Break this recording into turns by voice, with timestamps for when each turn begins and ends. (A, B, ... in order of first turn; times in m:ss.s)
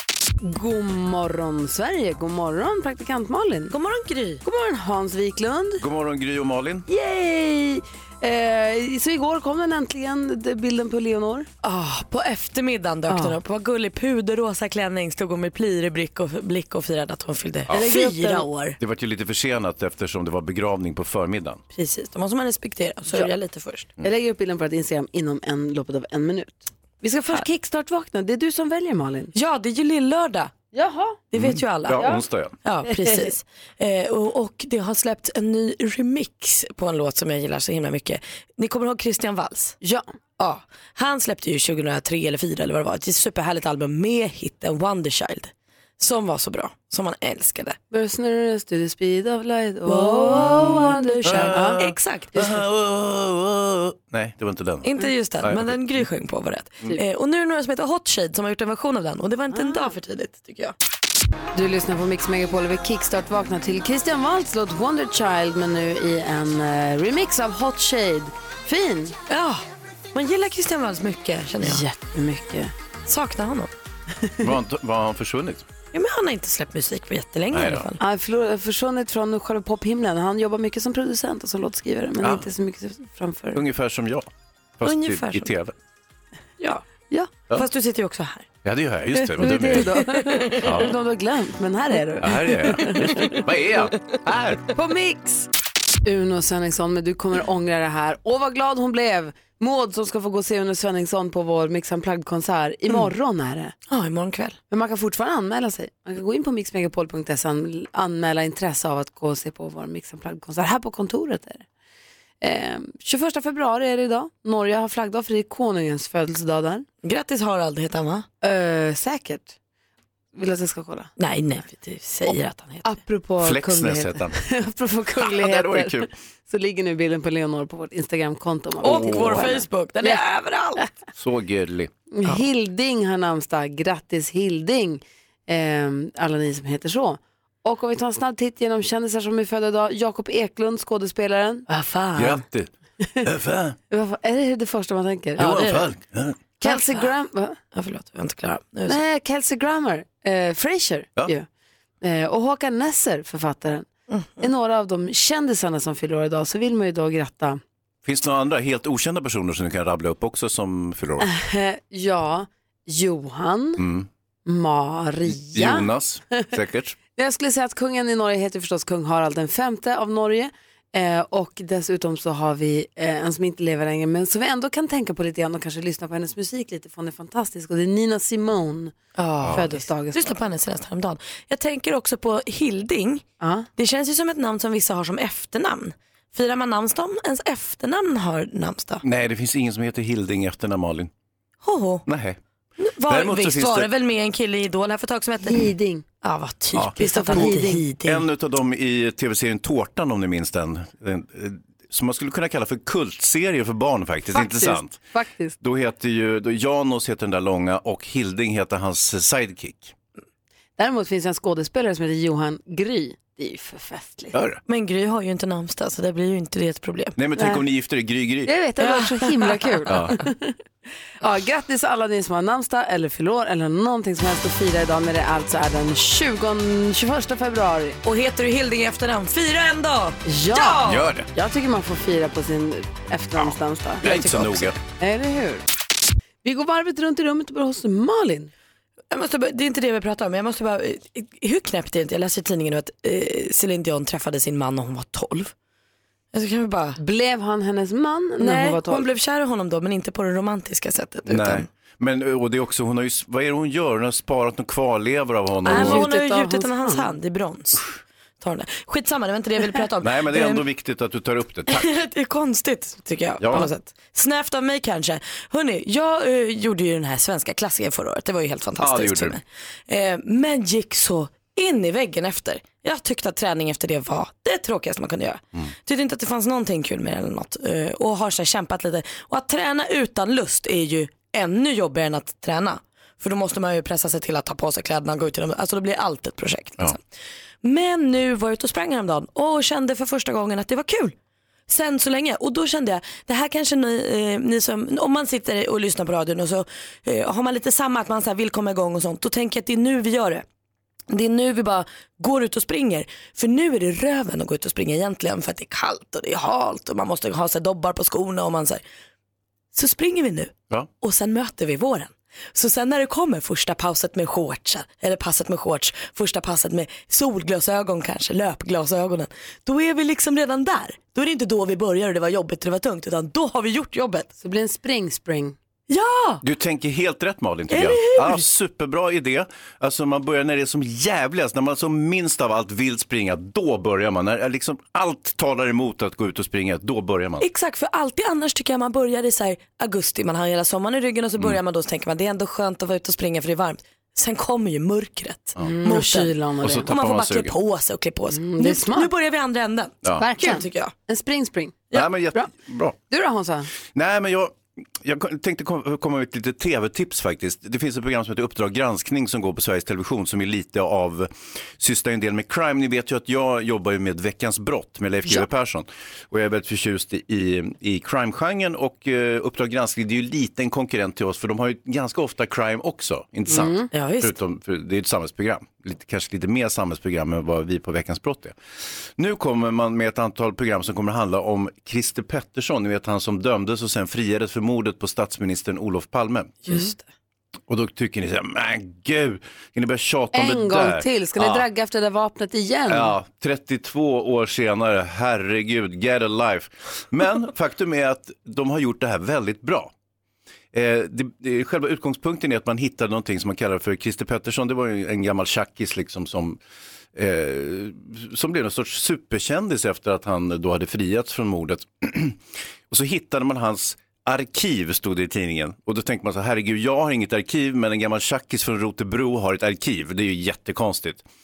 0:00.4-0:03.7 A
0:03.7-0:04.4 B
0:04.4-0:05.8 A
0:05.8-0:06.9 C
0:06.9-0:11.5 A
0:11.6-0:18.8 B
0:13.1-0:13.4 A
0:17.7-0:18.5 A
0:18.8-0:21.6 C
0:21.7-0:23.9 B
0:24.0-0:29.3 A
0:29.3-0:30.5 B
0:30.7-0:31.2 A
0:31.3-0:39.8 B
0:31.3-0:32.6 C
0:32.9-0:33.3 A
0:40.4-0:47.8 B
0:47.9-0:51.8 A
0:49.8-0:52.3 B
0:50.6-0:56.1 C
0:54.8-1:00.7 B
0:59.5-0:59.9 A
1:01.5-1:09.2 A
1:09.3-1:11.8 B
1:11.6-1:12.7 A
1:13.1-1:13.7 B
1:14.2-1:14.5 A
1:14.4-1:15.7 C
1:15.9-1:18.0 B
1:17.5-1:17.8 C
1:18.0-1:23.6 A
1:22.2-1:22.5 C
1:23.5-1:24.3 C
1:24.8-1:25.7 C
1:24.8-1:25.5 B
1:26.6-1:28.5 B
1:28.6-1:30.0 C
1:29.4-1:33.4 A
1:29.4-1:30.7 B
1:30.6-1:30.9 C
1:32.2-1:34.6 C
1:34.7-1:35.5 A
1:36.0-1:43.8 A
1:43.9-1:44.6 B
1:44.7-1:51.6 A
1:52.4-1:56.9 A
1:57.0-1:58.3 B
1:58.4-1:59.5 A
2:00.3-2:01.1 A
2:01.2-2:02.9 B
2:02.8-2:10.2 A
2:03.4-2:04.4 C
2:05.2-2:06.1 C
2:08.8-2:10.8 B
2:08.8-2:09.4 C
2:11.1-2:11.9 C
2:12.1-2:22.4 A
2:22.2-2:22.7 C
2:23.2-2:23.8 C
2:23.9-2:25.5 A
2:25.4-2:25.9 B
2:25.4-2:26.4 C
2:26.6-2:27.6 A
2:26.6-2:27.1 B
2:27.7-2:29.0 B
2:28.9-2:31.5 A
2:32.0-2:33.9 A
2:34.1-2:34.4 B
2:34.4-2:37.6 A
2:38.0-2:41.3 C
2:41.2-2:43.8 A
2:43.8-2:44.1 C
2:44.4-2:45.9 A
2:45.2-2:47.0 C
2:47.2-3:00.4 A
2:59.2-3:09.0 B
3:03.4-3:03.7 A
3:09.0-3:11.1 C
3:11.6-3:12.0 B
3:12.0-3:12.4 C
3:12.8-3:15.7 B
3:13.1-3:13.9 C
3:15.4-3:16.0 A
3:16.2-3:18.2 B
3:16.8-3:25.0 C
3:17.0-3:17.8 A
3:24.3-3:25.6 A
3:25.6-3:29.9 C
3:30.8-3:34.3 A
3:34.3-3:34.6 C
3:34.7-3:37.2 B
3:37.2-3:38.5 C
3:37.4-3:37.6 A
3:38.4-3:40.6 A
3:38.8-3:39.5 B
3:39.9-3:40.2 C
3:41.2-3:48.0 A
3:48.0-3:51.1 B
3:50.2-3:55.6 A
3:50.8-3:51.3 C
3:53.4-3:54.8 C
3:54.0-3:54.6 B
3:56.4-3:58.5 A
3:59.1-4:05.5 B
4:06.3-4:07.0 B
4:07.0-4:09.1 A
4:08.4-4:11.7 B
4:11.3-4:16.1 C
4:15.6-4:17.8 B
4:15.7-4:17.1 A
4:18.4-4:20.6 B
4:20.0-4:21.9 C
4:21.7-4:47.0 B
4:23.4-4:23.7 C
4:28.8-4:29.4 C
4:47.6-4:51.1 B
4:51.7-5:00.4 B
5:01.1-5:08.8 B
5:09.7-5:24.3 B
5:24.4-5:25.6 A
5:25.9-5:26.4 B
5:26.4-5:37.4 C
5:27.7-5:28.4 B
5:37.4-5:50.9 B
5:45.6-5:46.9 A
5:46.6-5:47.6 C
5:48.3-5:49.1 A
5:50.2-5:52.5 A
5:51.9-5:53.0 C
5:53.1-5:53.7 A
5:53.9-6:18.6 C
6:13.5-6:13.9 A
6:13.9-6:14.4 B
6:19.2-6:26.8 C
6:26.7-6:27.0 B
6:27.7-6:31.6 C
6:30.3-6:33.1 A
6:32.9-6:39.9 C
6:40.7-6:46.6 C
6:47.1-7:01.2 C